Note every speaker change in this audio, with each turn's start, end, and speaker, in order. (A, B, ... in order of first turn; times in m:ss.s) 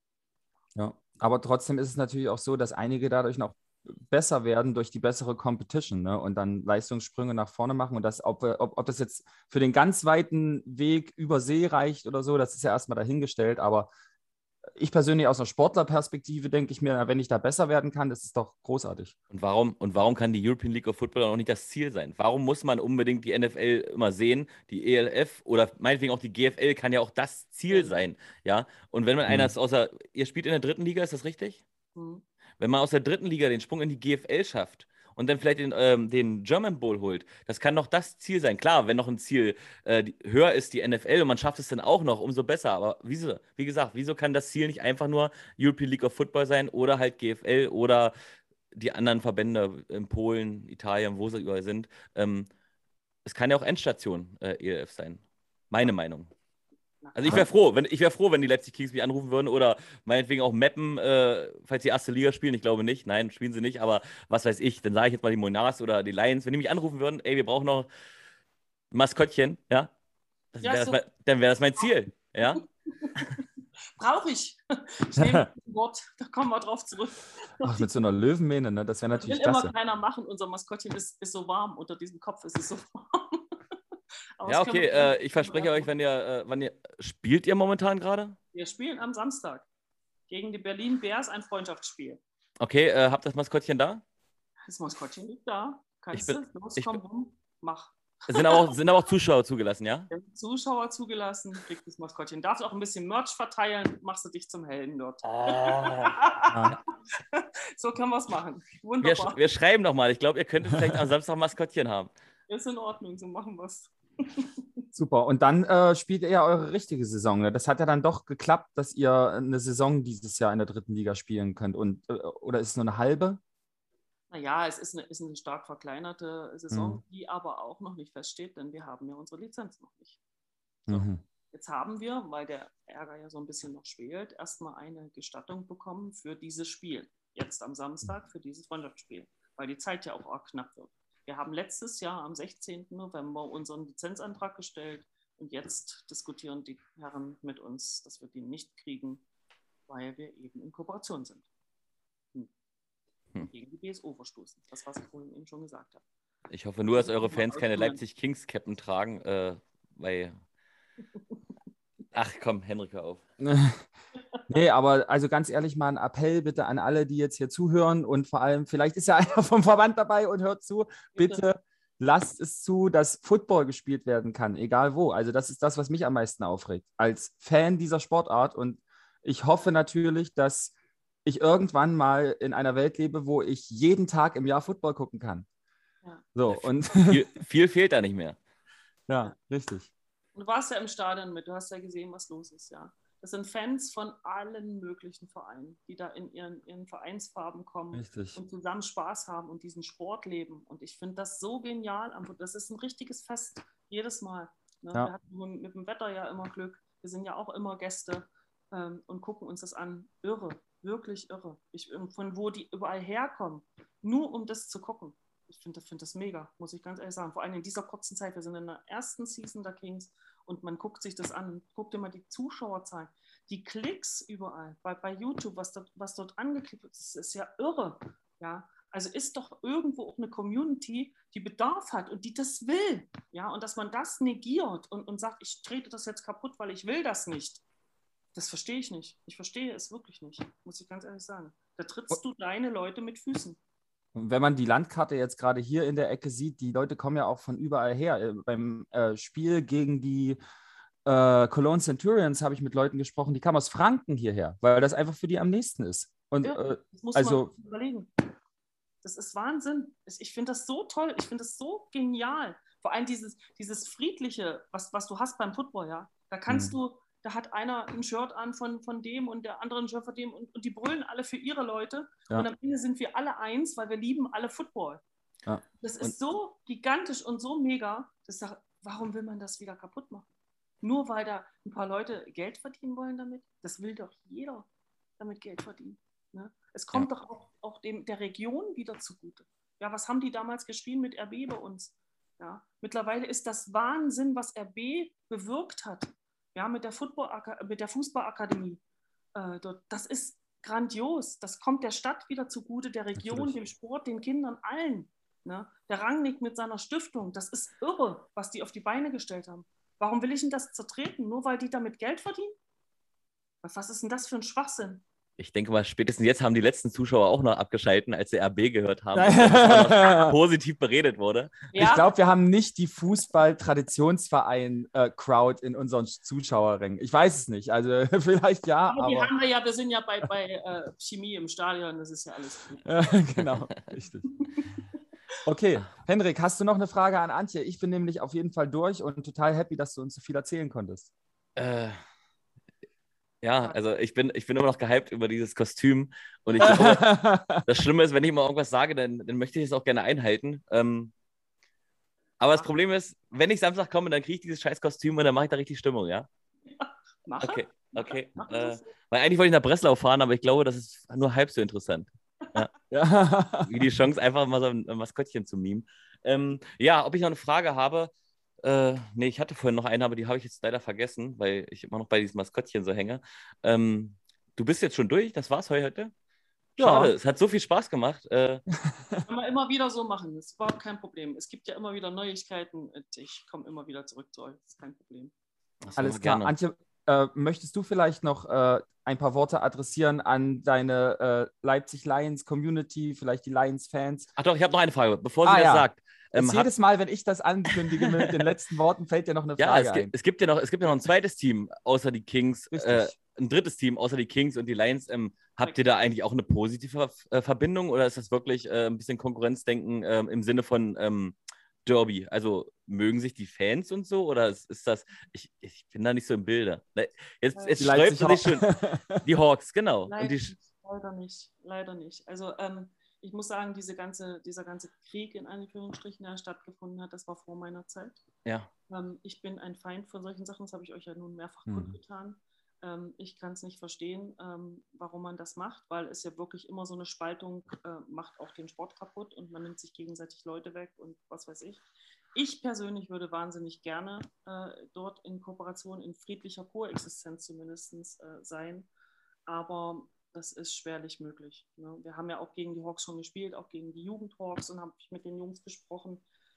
0:00.8-0:13.9 A
0:14.7-0:19.1 A
0:19.3-0:31.6 B
0:27.7-0:28.1 C
0:29.3-0:29.5 A
0:32.0-0:32.2 C
0:32.6-0:48.1 B
0:48.7-0:52.5 B
0:53.2-0:56.3 B
0:57.0-0:57.4 C
0:57.1-1:07.9 B
1:08.9-1:09.9 B
1:10.5-1:12.6 B
1:10.6-1:11.0 C
1:12.9-1:13.4 C
1:14.0-1:17.9 C
1:17.6-1:19.7 A
1:19.2-1:23.6 C
1:24.4-1:25.9 C
1:24.4-1:28.4 B
1:28.5-1:29.6 C
1:30.3-1:32.2 C
1:32.6-1:34.0 B
1:34.7-1:38.6 C
1:36.1-1:37.0 B
1:38.3-1:40.1 B
1:40.1-1:49.4 C
1:45.2-1:46.8 B
1:49.0-1:52.1 B
1:52.5-1:54.6 C
1:54.9-2:03.4 A
2:04.3-2:10.2 C
2:06.7-2:07.0 A
2:10.9-2:29.2 C
2:10.9-2:11.2 A
2:29.9-2:31.4 C
2:33.4-2:36.0 C
2:36.5-2:40.4 B
2:36.9-2:38.0 C
2:42.1-2:43.2 B
2:43.4-2:43.9 A
2:44.5-3:00.7 A
2:51.1-2:51.4 C
3:01.2-3:05.4 A
3:06.3-3:07.2 A
3:06.5-3:08.4 B
3:09.1-3:09.9 A
3:10.3-3:57.6 C
3:17.9-3:18.4 A
3:58.3-4:03.6 C
4:04.1-4:10.4 A
4:11.0-4:17.5 A
4:16.4-4:18.1 C
4:19.0-4:35.0 C
4:26.5-4:26.8 A
4:35.5-4:36.1 A
4:35.8-4:40.2 C
4:40.8-4:44.7 C
4:45.2-4:58.8 C
4:59.3-5:12.5 C
5:03.2-5:03.5 A
5:13.6-5:15.0 C
5:15.4-5:21.7 B
5:19.1-5:20.3 A
5:21.7-5:22.1 C
5:21.8-5:29.3 A
5:28.9-5:33.2 C
5:32.8-5:34.2 A
5:34.4-5:34.7 C
5:35.4-5:41.1 A
5:41.6-5:42.0 B
5:43.4-5:51.1 B
5:46.6-5:47.6 A
5:52.4-5:56.3 B
5:56.7-5:58.9 C
5:57.4-6:02.7 B
6:02.9-6:03.7 A
6:03.6-6:08.1 B
6:08.6-6:16.1 B
6:16.8-6:18.6 B
6:16.8-6:17.1 A
6:19.3-6:25.3 C
6:25.8-6:26.5 B
6:26.0-6:34.3 A
6:34.4-6:36.7 B
6:35.4-6:40.1 A
6:38.0-6:38.3 B
6:39.6-6:58.7 B
6:42.7-6:43.1 A
6:57.5-6:58.0 C
6:57.8-6:59.2 A
6:59.2-7:00.5 B
7:00.1-7:08.2 C
7:08.4-7:08.7 B
7:08.9-7:28.9 C
7:11.7-7:12.0 A
7:29.5-7:36.2 C